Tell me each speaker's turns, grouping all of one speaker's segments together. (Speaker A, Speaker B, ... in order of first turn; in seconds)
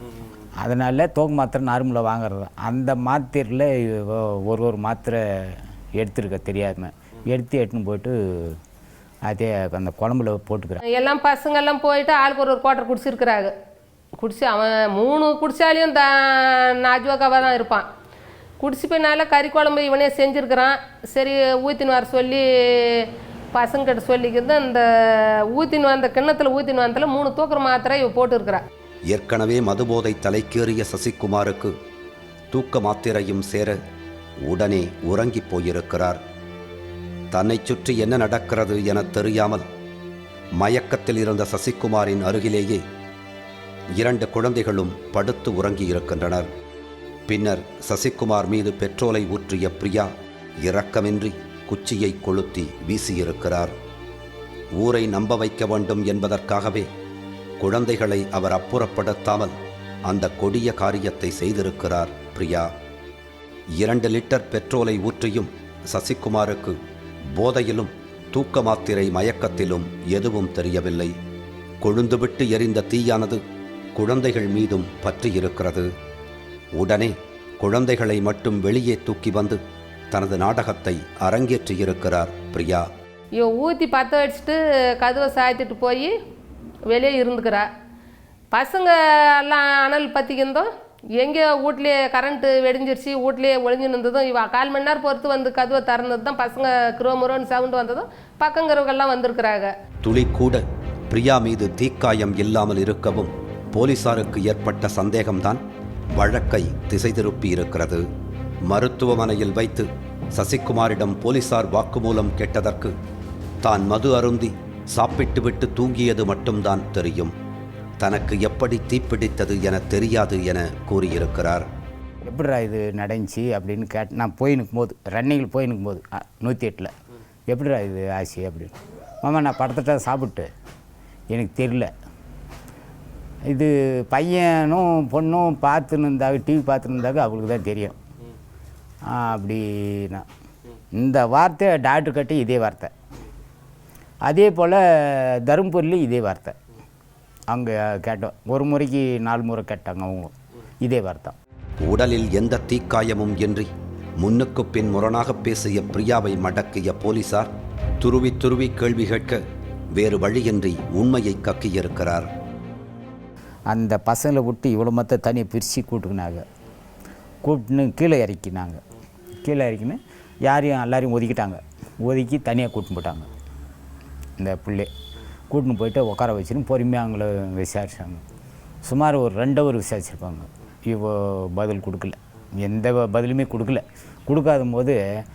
Speaker A: 0.6-8.6, 9.2-10.8, 122.2-126.9, 127.5-130.5, 131.3-131.9, 133.5-138.0, 139.1-140.2, 141.0-142.9, 144.2-146.5, 147.5-151.3, 163.7-166.4, 167.4-168.8, 169.4-173.3, 174.4-174.9, 175.5-178.2, 178.8-185.0
Speaker B: 10.9-13.5, 14.2-17.9, 18.6-28.6, 83.3-86.1, 86.9-87.7, 88.5-90.7, 91.2-99.7
Speaker C: 29.1-31.7, 32.5-33.8, 34.5-36.2, 37.3-39.6, 40.6-42.8, 44.0-46.5, 47.3-50.1, 50.6-53.7, 54.8-56.9, 57.6-59.5, 60.0-62.7, 63.8-66.8, 67.3-71.1, 71.8-73.4, 74.0-75.9, 76.8-79.6, 80.1-82.8, 100.0-105.6, 106.2-108.0, 108.7-112.9, 113.6-117.3, 118.0-121.7, 151.8-157.5, 158.0-159.4, 159.9-162.3